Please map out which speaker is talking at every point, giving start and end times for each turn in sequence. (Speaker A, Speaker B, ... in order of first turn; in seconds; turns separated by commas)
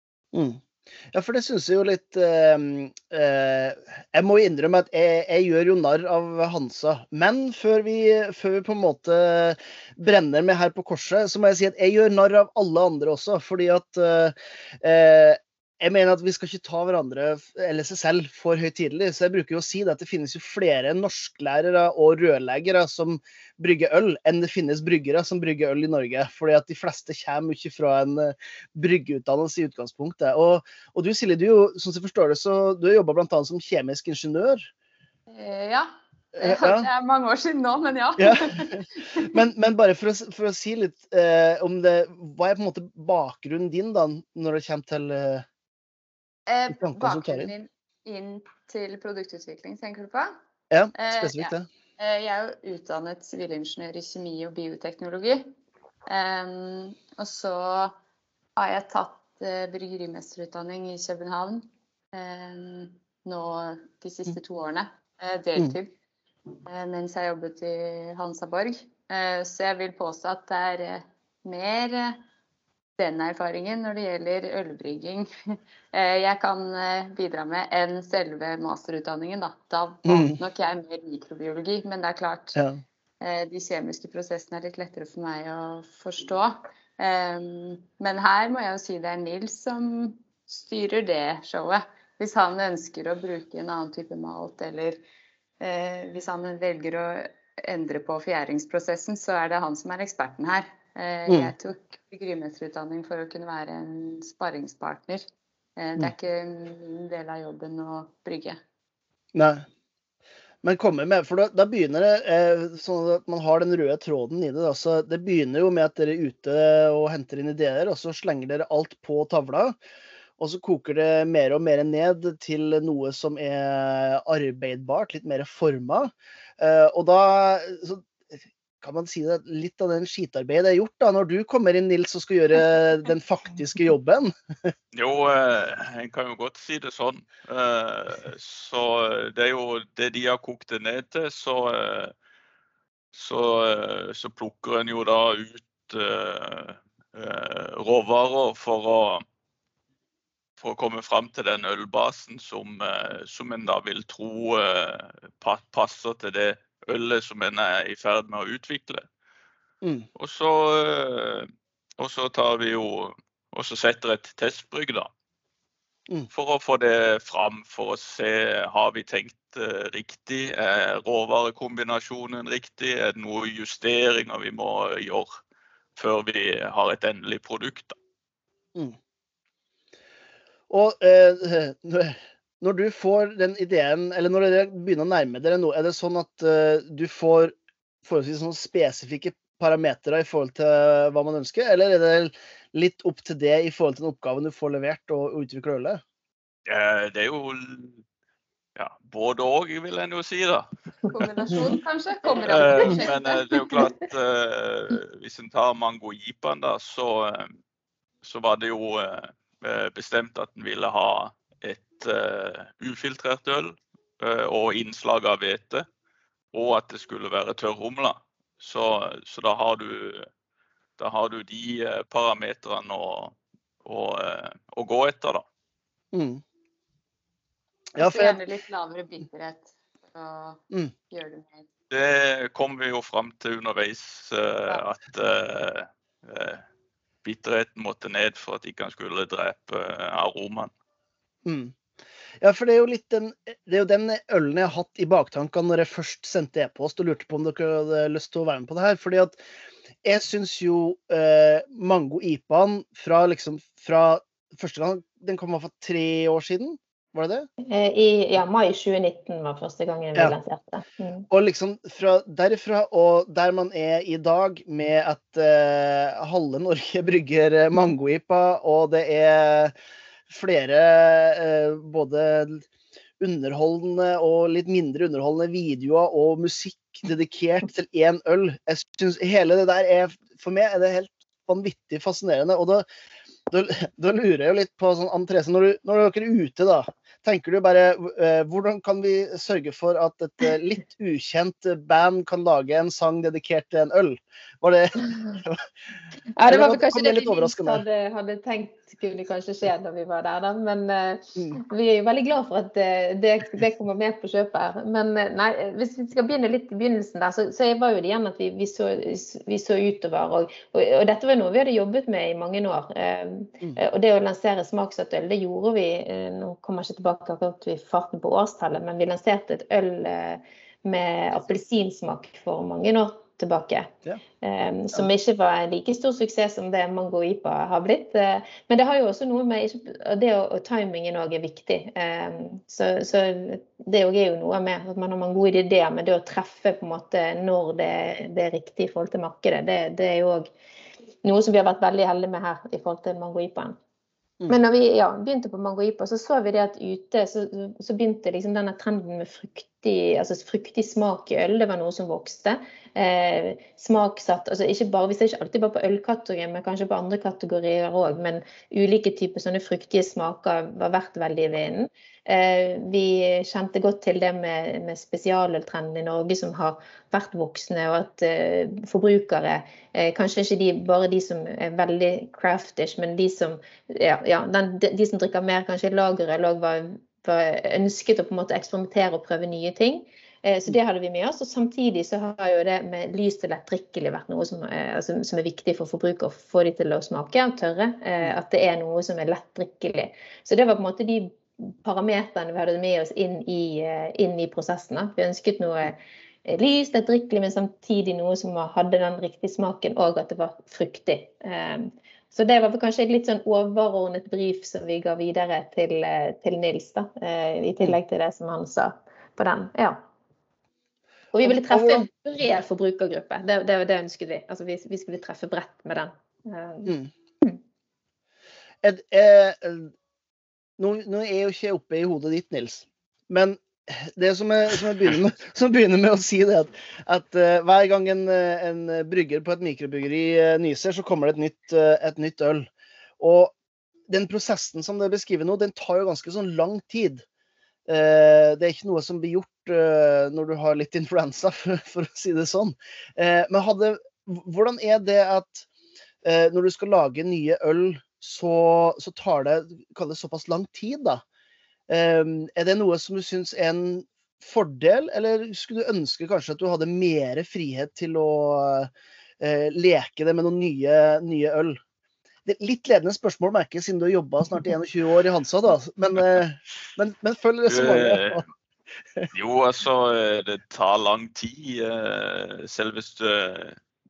Speaker A: 0.3-34.7, Speaker B: 35.3-35.9, Speaker A: 36.3-36.9, Speaker B: 36.4-39.4, Speaker A: 38.2-45.4, Speaker B: 46.5-50.3, Speaker A: 46.7-47.5, Speaker A: 50.7-51.7, Speaker B: 50.9-55.5, Speaker B: 56.1-57.9, Speaker B: 58.5-65.9, Speaker B: 66.7-72.2, Speaker B: 73.0-75.3, Speaker B: 75.9-82.6, Speaker A: 80.0-80.3, Speaker B: 83.2-95.0, Speaker B: 95.6-105.2, Speaker A: 101.3-101.5, Speaker B: 105.8-108.6, Speaker A: 109.3-109.6, Speaker A: 110.6-119.8, Speaker A: 120.4-128.1, Speaker A: 128.8-134.7, Speaker C: 134.9-142.1, Speaker C: 143.1-149.2, Speaker C: 150.6-159.0, Speaker C: 160.2-165.1, Speaker C: 166.3-175.3, Speaker C: 175.9-177.9, Speaker A: 180.7-196.0, Speaker C: 196.7-198.0, Speaker C: 198.8-200.7, Speaker B: 201.1-203.9, Speaker C: 202.4-207.5, Speaker C: 208.2-215.8, Speaker C: 216.5-220.3, Speaker C: 221.0-225.4, Speaker A: 226.1-226.4, Speaker A: 227.9-228.4, Speaker B: 228.0-231.7, Speaker C: 231.9-236.6, Speaker C: 237.2-240.7, Speaker A: 241.4-241.7, Speaker A: 242.4-249.4, Speaker A: 250.0-257.5, Speaker D: 257.7-261.3, Speaker A: 261.3-269.7, Speaker A: 270.3-272.6, Speaker A: 273.2-282.9, Speaker A: 283.5-295.6, Speaker D: 296.4-340.5, Speaker A: 296.5-297.8, Speaker D: 341.2-343.8, Speaker D: 344.5-410.0, Speaker D: 411.3-417.6, Speaker A: 411.4-412.0, Speaker A: 418.8-419.9, Speaker A: 420.8-433.5, Speaker A: 434.1-437.2, Speaker A: 437.9-445.7, Speaker A: 446.2-451.2, Speaker A: 451.9-461.8, Speaker A: 462.4-468.4, Speaker C: 467.7-468.4, Speaker C: 469.3-473.8